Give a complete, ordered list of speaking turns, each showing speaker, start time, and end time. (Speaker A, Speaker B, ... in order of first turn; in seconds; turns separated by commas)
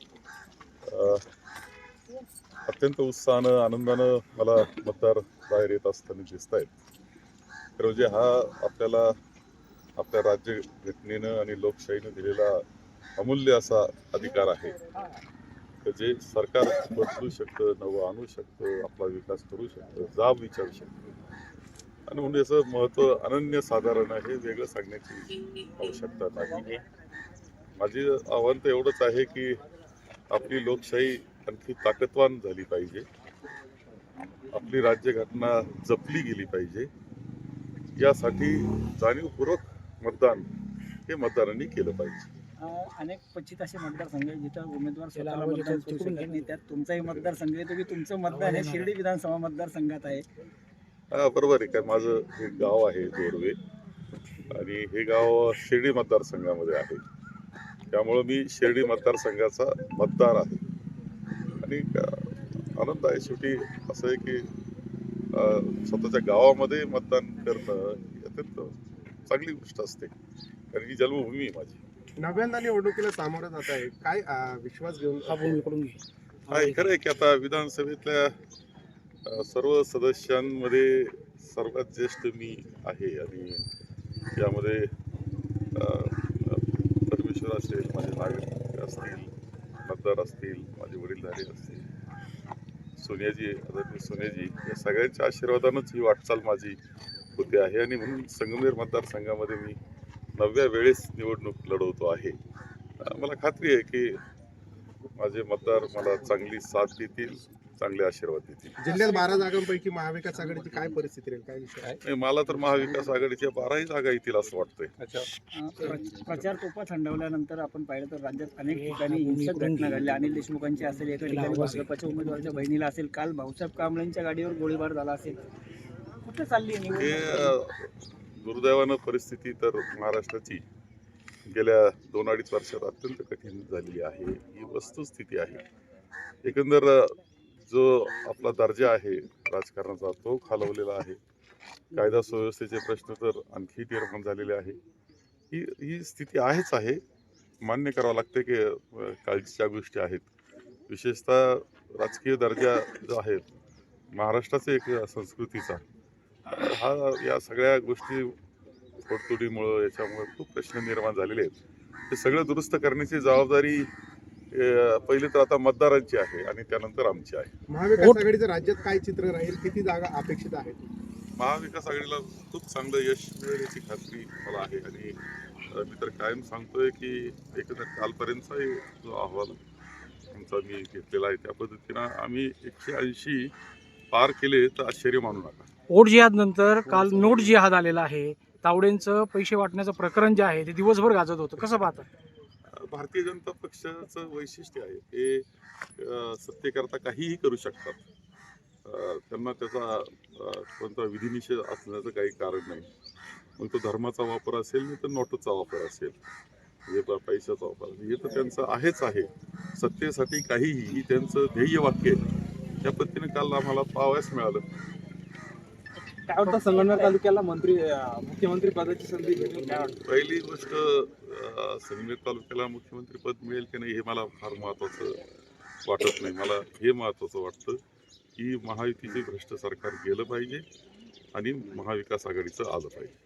Speaker A: 0.9-1.2, Speaker A: 2.7-6.7, Speaker A: 7.8-9.1, Speaker A: 10.0-12.6, Speaker A: 13.2-14.8, Speaker A: 15.8-20.9, Speaker A: 22.1-26.8, Speaker A: 27.8-29.6, Speaker A: 30.3-33.1, Speaker A: 34.5-36.9, Speaker A: 38.0-40.5, Speaker A: 41.1-42.3, Speaker B: 42.6-50.2, Speaker C: 45.1-46.5, Speaker C: 48.3-48.9, Speaker A: 51.1-53.6, Speaker A: 54.5-57.0, Speaker A: 57.9-60.6, Speaker A: 61.6-64.5, Speaker A: 65.3-68.8, Speaker A: 69.3-70.1, Speaker A: 70.7-71.8, Speaker D: 72.2-75.6, Speaker C: 75.3-76.0, Speaker A: 76.5-78.3, Speaker C: 76.5-76.8, Speaker A: 79.3-83.7, Speaker A: 84.4-84.9, Speaker A: 85.8-89.3, Speaker A: 89.8-91.9, Speaker A: 93.0-96.8, Speaker A: 97.4-99.8, Speaker A: 100.4-102.4, Speaker A: 103.0-104.2, Speaker A: 105.2-108.8, Speaker D: 108.8-112.0, Speaker A: 112.0-114.9, Speaker B: 115.5-125.4, Speaker C: 118.7-120.1, Speaker C: 121.2-122.3, Speaker B: 126.2-127.5, Speaker A: 126.9-130.7, Speaker A: 131.4-135.6, Speaker A: 136.4-141.2, Speaker A: 141.9-144.8, Speaker A: 145.5-147.0, Speaker A: 147.6-150.3, Speaker A: 150.9-153.5, Speaker A: 154.1-155.8, Speaker A: 156.6-158.4, Speaker A: 159.0-161.6, Speaker A: 162.1-163.9, Speaker A: 164.5-167.5, Speaker D: 167.7-170.9, Speaker A: 171.4-175.2, Speaker A: 175.7-179.6, Speaker A: 180.3-183.5, Speaker A: 184.1-185.7, Speaker C: 185.9-192.1, Speaker A: 186.9-187.4, Speaker A: 192.7-195.4, Speaker A: 196.0-198.0, Speaker A: 198.8-202.9, Speaker A: 203.6-206.2, Speaker A: 206.9-212.2, Speaker A: 212.8-214.6, Speaker E: 216.3-220.0, Speaker B: 216.4-217.2, Speaker A: 220.0-225.2, Speaker A: 225.8-227.8, Speaker A: 228.4-230.7, Speaker A: 231.3-233.1